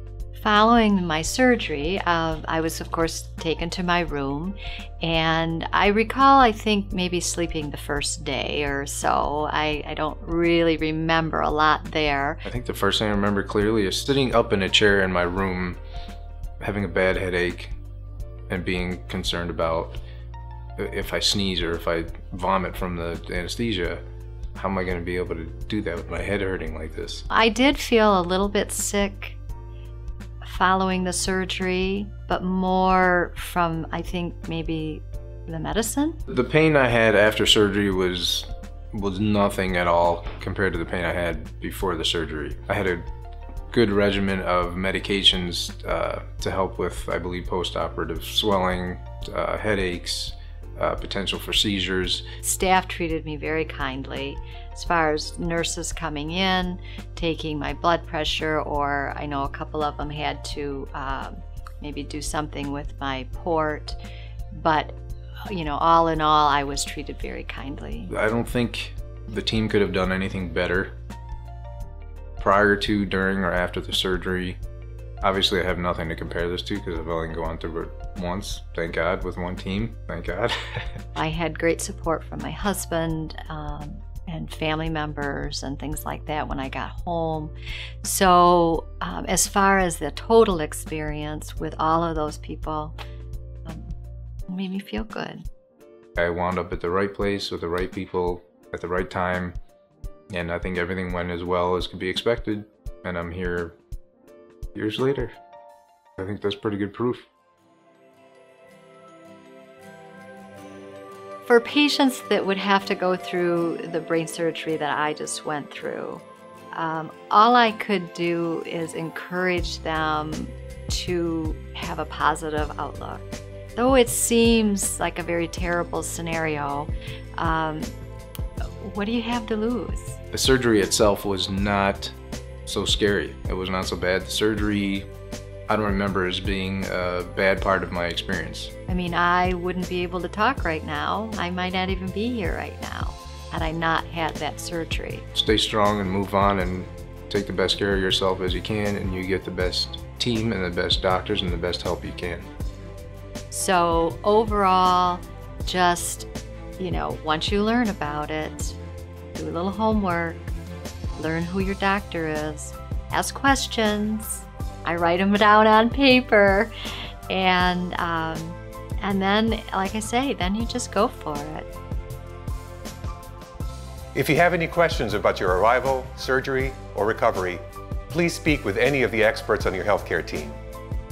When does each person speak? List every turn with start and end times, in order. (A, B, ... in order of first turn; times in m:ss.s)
0:00.3-0:12.4 A
0:12.4-0:15.8 B
0:16.6-0:17.7 B
0:18.5-0:20.0 B
0:20.8-0:24.0 B
0:24.5-0:27.2 B
0:27.3-0:29.4 A
0:30.4-0:36.2 A
0:36.3-0:43.1 B
0:43.7-0:52.3 B
0:52.4-1:04.0 A
1:04.5-1:08.1 A
1:08.1-1:11.0 B
1:12.4-1:14.6 B
1:15.2-1:21.0 B
1:21.2-1:33.0 A
1:33.6-1:33.9 A
1:34.5-1:35.4 A
1:36.2-1:39.6 B
1:40.3-1:43.8 B
1:44.7-1:45.4 B
1:46.2-1:47.3 B
1:51.4-2:07.9 A
2:08.8-2:10.2 A
2:10.3-2:12.1 B
2:12.6-2:15.1 B
2:15.7-2:18.7 B
2:18.9-2:25.3 A
2:25.3-2:32.5 B
2:33.5-2:38.8 A
2:39.3-2:40.5 A
2:41.2-2:46.7 A
2:47.3-2:51.7 A
2:54.1-3:00.6 C